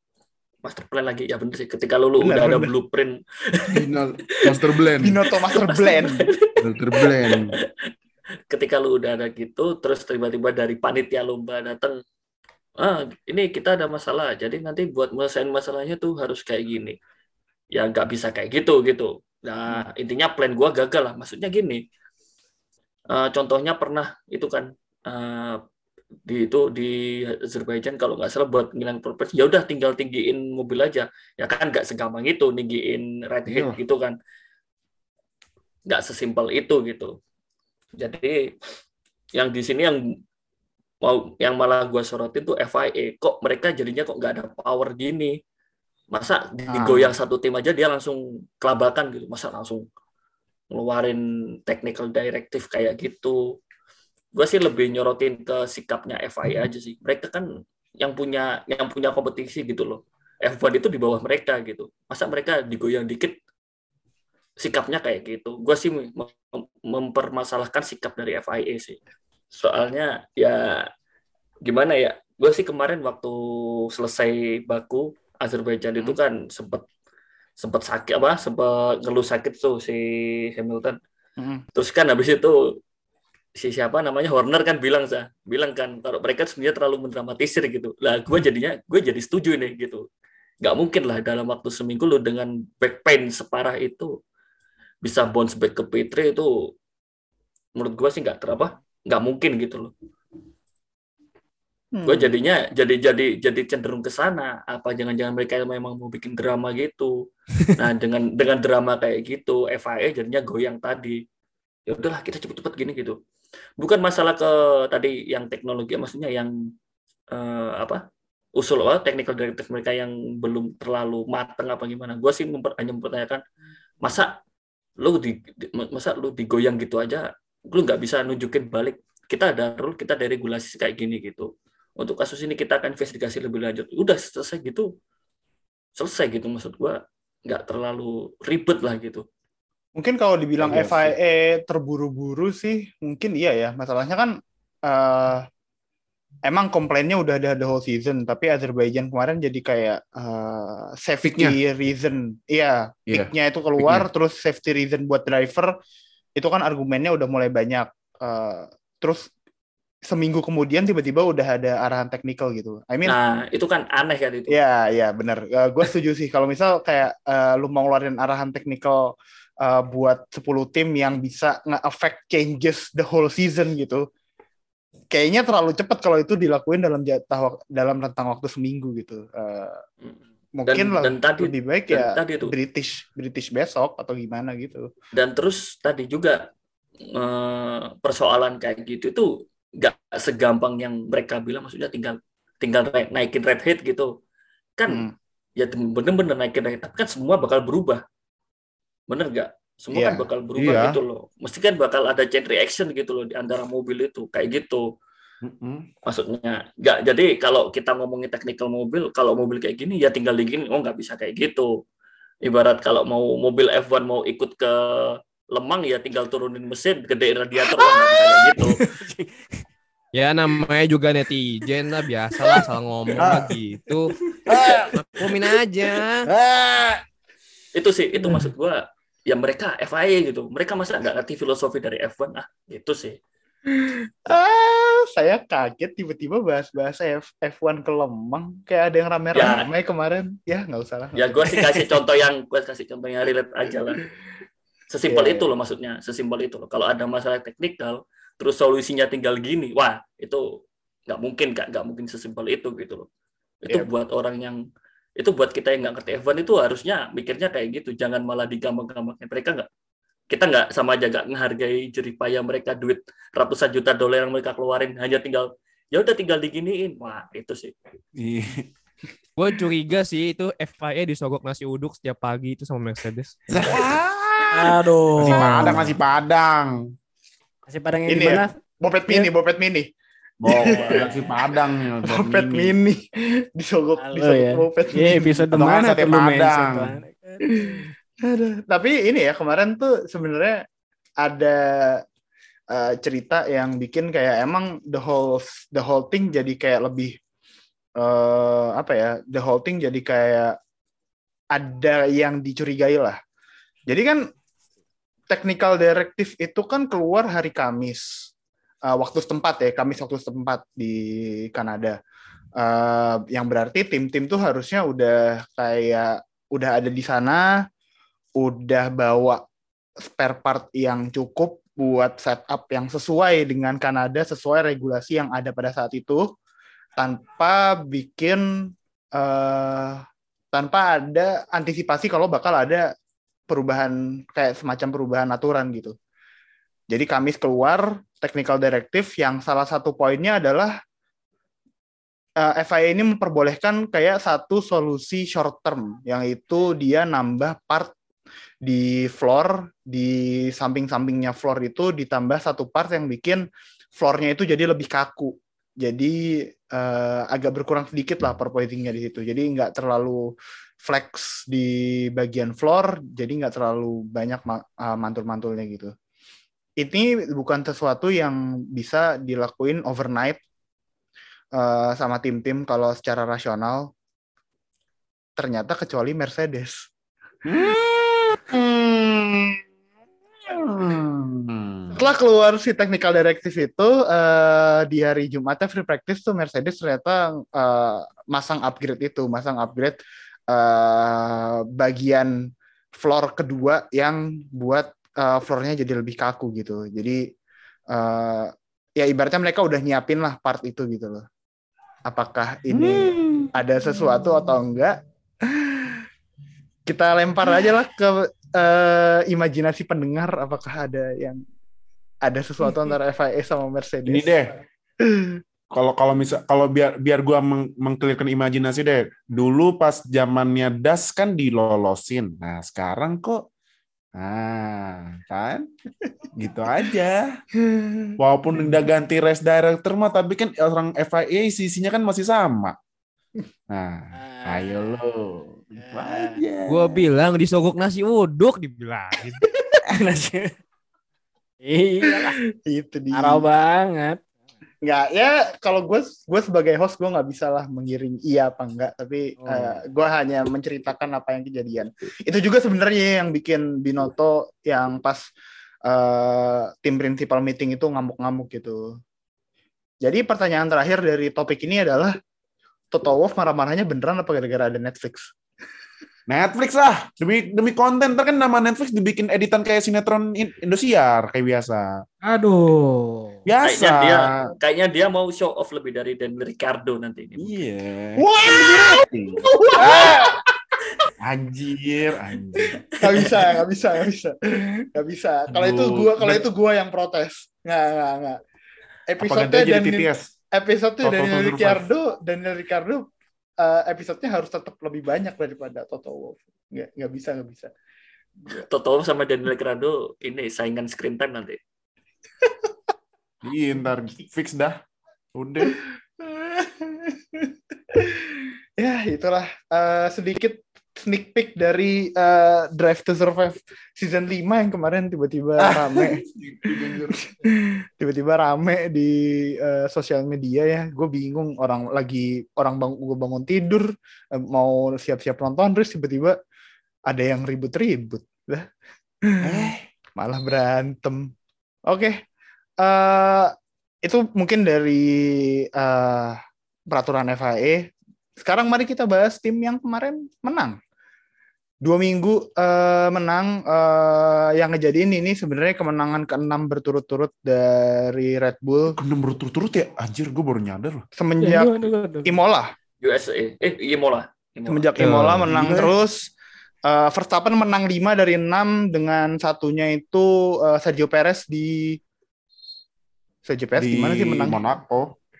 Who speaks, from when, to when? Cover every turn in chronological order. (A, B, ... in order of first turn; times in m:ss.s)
0:00.6-0:03.8 A
0:02.2-0:02.7 B
0:03.7-0:05.2 C
0:05.0-0:06.3 B
0:05.5-0:07.6 A
0:06.6-0:07.5 C
0:08.5-0:12.0 A
0:12.8-0:17.0 A
0:17.7-0:21.8 A
0:23.1-0:25.6 A
0:26.3-0:34.2 A
0:33.5-0:33.8 C
0:35.9-0:37.1 A
0:38.0-0:38.5 A
0:39.3-0:40.0 A
0:41.0-0:45.4 A
0:46.1-0:49.8 A
0:46.7-0:47.2 B
0:50.7-0:53.6 A
0:54.3-0:57.4 A
0:58.0-1:03.4 A
1:04.6-1:09.0 A
1:09.5-1:10.9 A
1:11.6-1:16.8 A
1:17.6-1:21.0 A
1:21.4-1:21.6 B
1:21.7-1:22.8 A
1:23.6-1:30.0 A
1:30.6-1:34.1 A
1:35.0-1:36.7 A
1:37.8-1:39.9 A
1:41.9-1:42.3 B
1:42.0-1:47.1 A
1:47.7-1:51.2 A
1:51.9-1:53.2 A
1:53.8-1:56.5 A
1:57.3-1:58.0 A
1:58.6-2:03.4 A
2:04.0-2:04.4 A
2:05.0-2:14.9 A
2:16.0-2:19.2 A
2:20.0-2:25.4 B
2:20.6-2:21.1 C
2:26.4-2:35.7 B
2:31.3-2:31.6 C
2:33.1-2:34.0 C
2:36.4-2:39.3 B
2:40.0-2:43.1 B
2:43.0-2:44.6 A
2:44.5-2:54.0 B
2:55.1-2:59.8 B
3:00.0-3:02.5 A
3:00.6-3:04.9 B
3:05.1-3:06.4 A
3:07.0-3:14.1 A
3:14.8-3:18.0 A
3:19.1-3:24.8 A
3:19.9-3:20.2 B
3:20.6-3:21.0 C
3:25.4-3:25.9 C
3:26.0-3:31.7 A
3:32.4-3:38.8 A
3:37.6-3:39.5 D
3:40.1-3:44.1 E
3:42.4-3:42.6 D
3:43.2-3:43.5 C
3:44.5-3:45.5 C
3:45.1-3:46.3 E
3:46.3-3:47.0 C
3:47.7-3:53.2 A
3:53.7-4:01.5 B
3:59.3-3:59.7 A
4:01.1-4:04.0 A
4:04.9-4:13.1 A
4:05.1-4:05.5 B
4:13.6-4:14.6 A
4:15.2-4:19.7 A
4:20.3-4:27.7 A
4:28.2-4:28.7 C
4:29.4-4:33.4 E
4:33.5-4:36.8 C
4:34.5-4:35.8 D
4:37.7-4:38.5 D
4:38.1-4:39.9 B
4:40.4-4:42.7 C
4:40.4-4:41.2 B
4:42.0-4:45.5 B
4:44.0-4:47.9 D
4:45.5-4:47.0 C
4:47.5-4:50.6 B
4:51.2-4:52.0 B
4:52.7-4:57.2 B
4:58.0-5:00.6 B
5:01.5-5:03.2 B
5:03.9-5:04.3 B
5:05.3-5:08.3 B
5:08.9-5:12.0 B
5:12.6-5:17.5 B
5:18.4-5:19.4 B
5:20.0-5:26.3 B
5:27.0-5:32.9 B
5:33.5-5:35.9 B
5:36.9-5:40.7 B
5:42.4-5:47.9 B
5:48.6-6:05.9 B
6:06.8-6:10.4 B
6:11.5-6:13.9 B
6:15.4-6:16.9 B
6:17.4-6:19.6 C
6:20.4-6:22.0 C
6:21.9-6:30.0 B
6:30.5-6:32.4 B
6:32.9-6:37.2 B
6:37.9-6:41.2 B
6:42.1-6:46.0 B
6:42.7-6:43.5 C
6:46.9-6:51.4 B
6:52.2-6:55.4 B
6:54.0-6:54.5 C
6:55.7-7:03.4 C
7:04.1-7:05.7 C
7:06.4-7:07.4 C
7:07.6-7:08.2 B
7:08.2-7:12.7 C
7:13.7-7:17.0 C
7:14.1-7:15.0 D
7:15.8-7:16.4 D
7:16.7-7:19.4 E
7:19.9-7:20.5 D
7:21.6-7:22.4 D
7:22.6-7:23.4 B
7:23.1-7:24.2 D
7:24.8-7:35.3 B
7:29.4-7:29.8 D
7:35.8-7:38.9 B
7:40.0-7:42.2 B
7:42.9-7:45.3 B
7:46.3-7:52.0 C
7:52.2-7:53.4 D
7:53.4-7:54.4 C
7:53.6-7:57.5 A
7:57.4-8:00.3 C
7:58.2-8:00.4 B
8:01.2-8:02.8 C
8:03.0-8:08.4 B
8:03.0-8:03.5 A
8:05.5-8:06.4 C
8:09.1-8:13.1 B
8:09.2-8:10.3 C
8:11.0-8:11.8 C
8:13.6-8:17.7 B
8:18.5-8:21.6 A
8:22.4-8:22.7 B
8:23.4-8:24.8 C
8:25.3-8:25.8 C
8:25.7-8:46.4 B
8:35.6-8:37.2 C
8:47.1-8:48.7 B
8:49.2-8:49.5 B
8:49.4-8:49.8 C
8:50.2-8:51.3 B
8:51.9-8:52.2 B
8:52.8-8:56.4 B
8:56.9-9:00.8 B
9:01.8-9:08.9 B
9:08.9-9:11.0 C
9:11.2-9:12.7 B
9:11.4-9:12.4 D
9:13.0-9:14.9 A
9:14.7-9:16.3 B
9:15.0-9:15.5 E
9:15.4-9:15.9 C
9:16.8-9:22.0 B
9:23.4-9:24.6 B
9:23.8-9:25.1 C